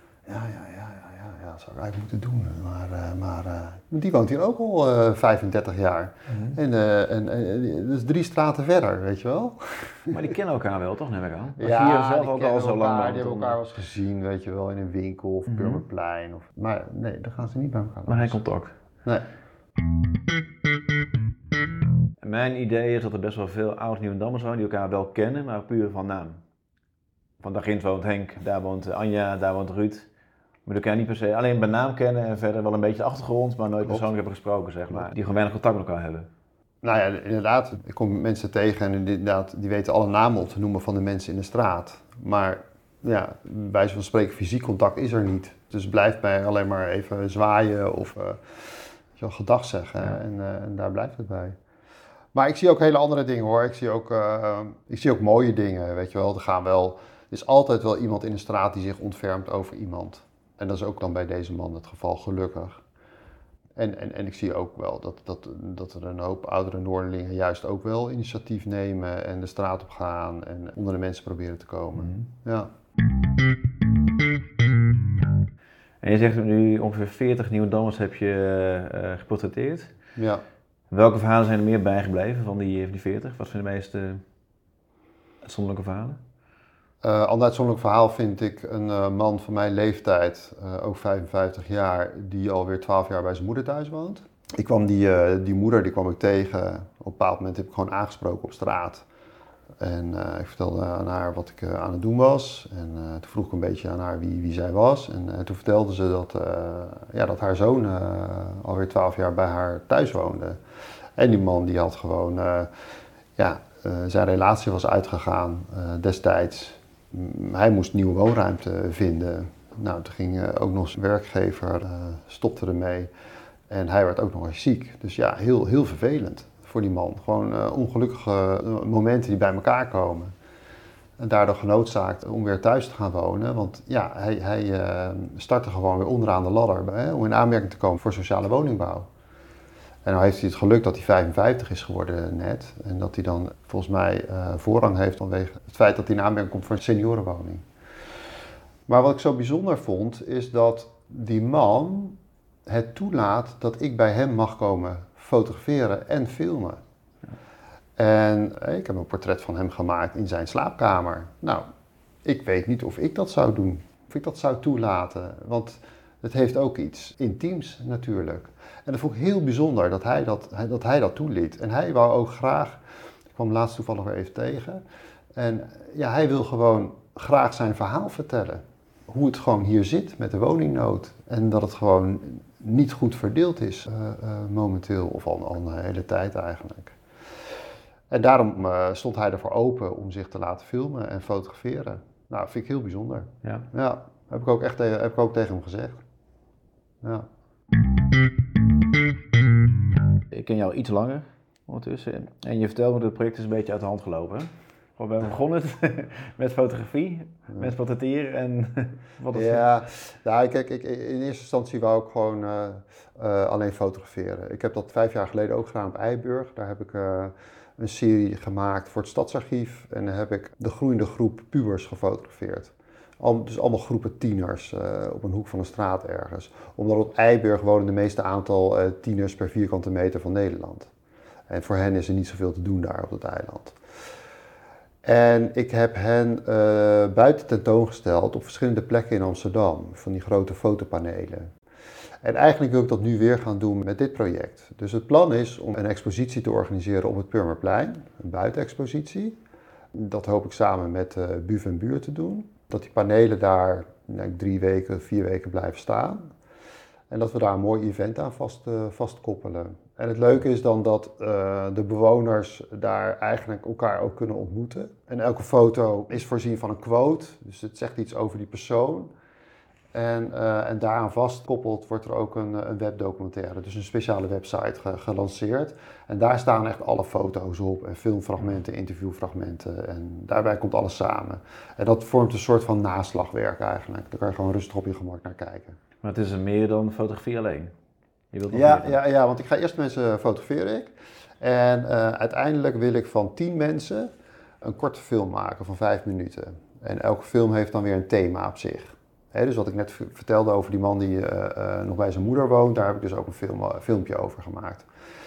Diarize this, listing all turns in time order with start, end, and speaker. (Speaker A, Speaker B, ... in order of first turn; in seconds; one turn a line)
Speaker A: 0.3-10.2
Speaker B: 6.3-6.6
Speaker B: 10.1-13.6
Speaker A: 11.6-18.4
Speaker B: 15.5-15.8
Speaker B: 18.1-18.7
Speaker B: 22.2-26.4
Speaker B: 27.4-30.1
Speaker B: 30.6-36.3
Speaker A: 36.8-51.6
Speaker A: 52.3-62.8
Speaker A: 63.8-72.7
Speaker B: 72.0-72.2
Speaker B: 76.0-79.9
Speaker A: 80.2-80.4
Speaker B: 80.9-84.2
Speaker B: 85.4-86.2
Speaker A: 87.0-99.0
Speaker A: 99.8-110.6
Speaker A: 111.2-112.7
Speaker A: 113.4-123.1
Speaker A: 123.7-130.3
Speaker A: 131.2-139.1
Speaker A: 140.1-147.7
Speaker A: 148.9-156.8
Speaker A: 158.0-161.6
Speaker A: 162.2-172.8
Speaker A: 173.3-174.8
Speaker A: 175.3-187.0
Speaker A: 188.1-196.0
Speaker B: 200.3-209.7
Speaker A: 209.3-230.9
Speaker A: 231.5-233.8
Speaker A: 235.1-241.5
Speaker A: 242.2-249.4
Speaker A: 249.9-256.3
Speaker A: 257.1-269.1
Speaker A: 269.9-285.8
Speaker B: 286.0-287.7
Speaker B: 288.3-289.0
Speaker A: 288.5-294.1
Speaker A: 294.6-304.9